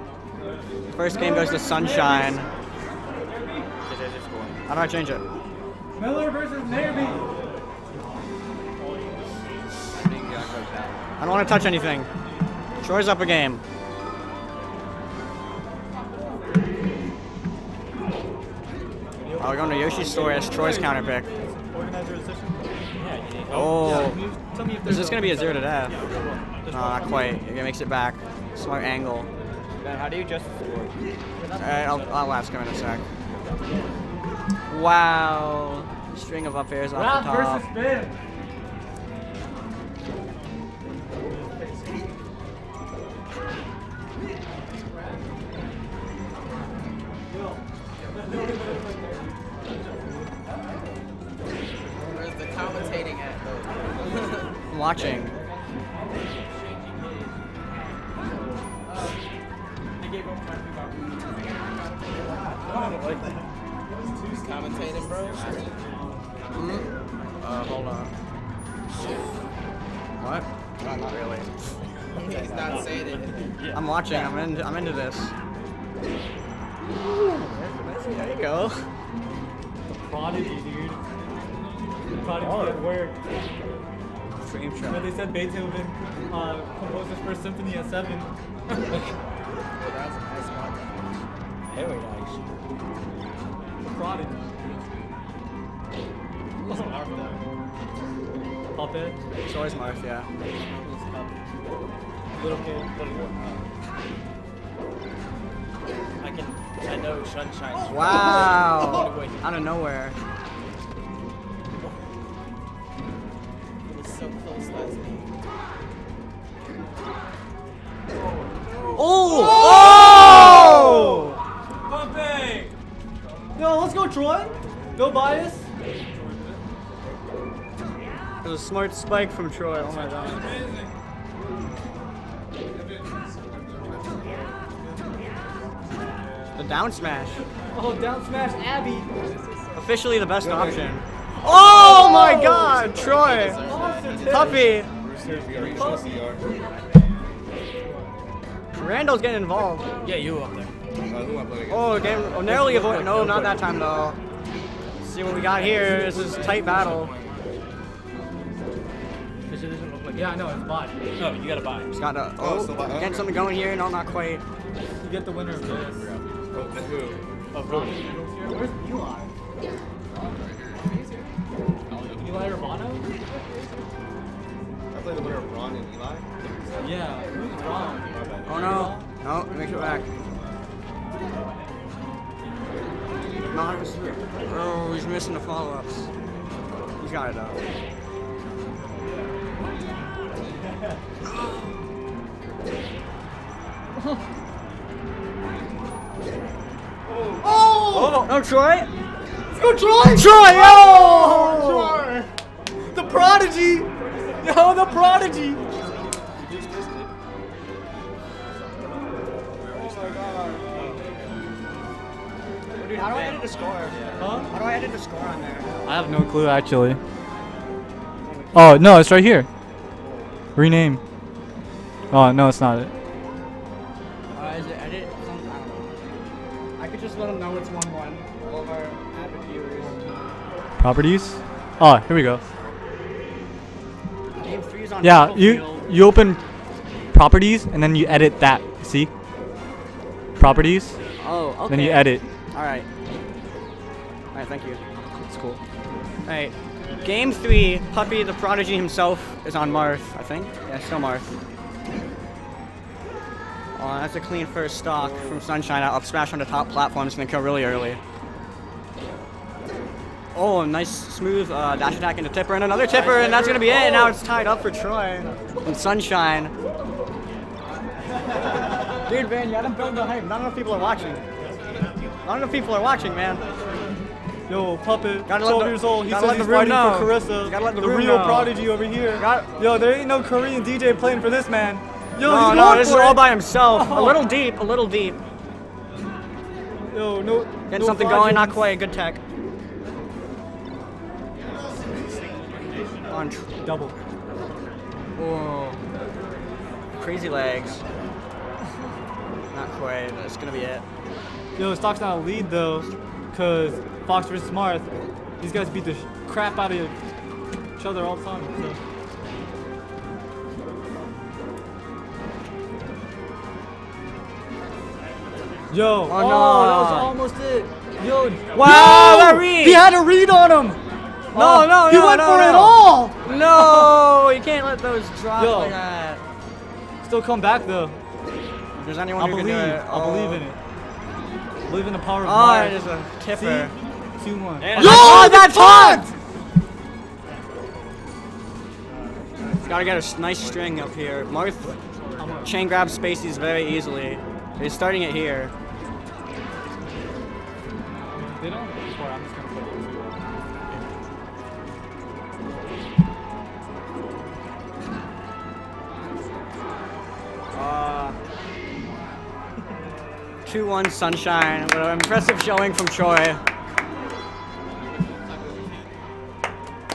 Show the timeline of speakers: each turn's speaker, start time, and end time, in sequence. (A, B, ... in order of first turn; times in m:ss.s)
0:00.9-0:02.5 A
0:01.0-0:02.4 B
0:03.9-0:04.5 C
0:04.7-0:05.2 A
0:06.0-0:07.3 B
0:10.0-0:10.9 C
0:11.2-0:12.1 A
0:12.8-0:13.6 A
0:19.2-0:22.8 B
0:19.4-0:21.3 A
0:23.0-0:24.1 C
0:23.5-0:27.4 B
0:23.5-0:24.2 A
0:24.8-0:26.0 A
0:26.7-0:29.3 A
0:29.8-0:30.9 C
0:31.4-0:32.3 B
0:31.6-0:33.0 A
0:34.7-0:37.6 A
0:36.9-0:38.2 B
0:47.3-0:50.3 B
0:52.1-0:54.5 D
0:54.7-0:55.4 A
0:55.1-0:55.8 B
0:56.6-0:57.3 C
1:02.6-1:03.3 C
1:04.3-1:05.7 D
1:06.5-1:06.9 A
1:07.4-1:08.1 A
1:10.2-1:11.5 A
1:12.2-1:14.3 C
1:12.2-1:13.5 D
1:13.7-1:15.3 A
1:17.0-1:18.9 A
1:19.9-1:21.0 B
1:22.1-1:23.2 B
1:22.4-1:22.8 C
1:24.4-1:25.1 A
1:24.9-1:28.3 B
1:29.8-1:31.2 D
1:31.7-1:32.4 C
1:33.8-1:34.4 B
1:36.6-1:37.4 D
1:38.7-1:39.2 B
1:39.5-1:40.3 A
1:40.7-1:41.3 C
1:42.3-1:42.9 B
1:42.5-1:43.6 C
1:46.2-1:49.4 C
1:47.8-1:50.2 A
1:53.9-1:55.3 D
1:59.0-2:01.4 A
1:59.0-2:01.4 B
2:02.0-2:02.6 C
2:03.6-2:05.7 B
2:08.4-2:10.6 A
2:16.5-2:17.4 A
2:17.7-2:19.1 B
2:19.7-2:23.7 A
2:20.4-2:21.0 E
2:21.7-2:22.7 B
2:22.8-2:24.8 D
2:23.6-2:24.6 B
2:24.2-2:24.9 A
2:24.4-2:26.4 E
2:25.2-2:26.2 B
2:28.8-2:29.9 A
2:30.0-2:30.7 C
2:31.0-2:32.6 E
2:31.7-2:34.2 A
2:32.3-2:33.7 C
2:35.0-2:37.1 A
2:35.9-2:36.5 D
2:36.2-2:36.9 C
2:39.5-2:40.3 C
2:40.1-2:41.1 B
2:41.2-2:41.9 C
2:41.9-2:44.4 A
2:42.4-2:43.3 E
2:45.0-2:46.0 B
2:46.5-2:47.2 E
2:47.5-2:48.0 C
2:47.6-2:49.3 B
2:50.2-2:51.3 D
2:52.2-2:53.1 B
2:54.9-2:56.5 E
2:56.8-2:59.1 B
2:58.1-2:58.9 E
2:58.5-3:00.1 A
3:03.5-3:06.1 A
3:07.0-3:07.6 A
3:17.4-3:18.3 B
3:17.9-3:18.9 A
3:19.5-3:21.8 B
3:20.1-3:22.1 A
3:22.9-3:25.6 B
3:26.4-3:27.1 C
3:29.7-3:30.9 A
3:32.8-3:35.8 A
3:33.9-3:34.3 C
3:34.2-3:34.5 B
3:35.8-3:37.0 B
3:38.2-3:39.0 A
3:38.5-3:39.5 B
3:40.6-3:41.0 B
3:42.1-3:42.9 B
3:44.3-3:45.9 A
3:46.8-3:50.0 A
3:49.8-3:52.4 B
3:54.4-3:55.9 A
3:55.0-3:56.4 B
3:57.1-3:59.1 B
4:00.4-4:01.0 B
4:01.2-4:02.9 A
4:01.7-4:02.2 B
4:04.3-4:04.8 A
4:05.1-4:05.6 B
4:06.2-4:11.4 A
4:13.8-4:18.0 A
4:20.3-4:26.5 A
4:28.7-4:31.2 A
4:32.2-4:33.4 A
4:34.5-4:44.2 B
4:35.3-4:38.6 A
4:39.2-4:39.5 A
4:42.2-4:45.2 A
4:46.9-4:48.6 B
4:47.7-4:49.2 A
4:53.1-4:53.4 A
4:53.6-4:54.0 B
4:55.2-4:55.8 A
4:57.0-4:57.8 A
4:59.5-5:00.8 A
5:01.6-5:04.9 B
5:05.4-5:07.0 B
5:07.8-5:08.8 B
5:15.7-5:20.8 B
5:16.1-5:17.1 A
5:18.5-5:19.8 A
5:21.3-5:24.0 B
5:21.3-5:26.2 A
5:25.4-5:25.8 B
5:27.0-5:28.0 B
5:28.8-5:30.4 A
5:29.2-5:30.6 B
5:31.7-5:36.1 B
5:32.2-5:33.8 A
5:34.7-5:36.0 A
5:34.7-5:35.0 C
5:39.6-5:41.8 A
5:42.2-5:42.6 B
5:42.4-5:45.5 A
5:48.2-5:50.2 B
5:57.5-5:58.2 A
6:00.5-6:03.4 A
6:04.8-6:05.9 D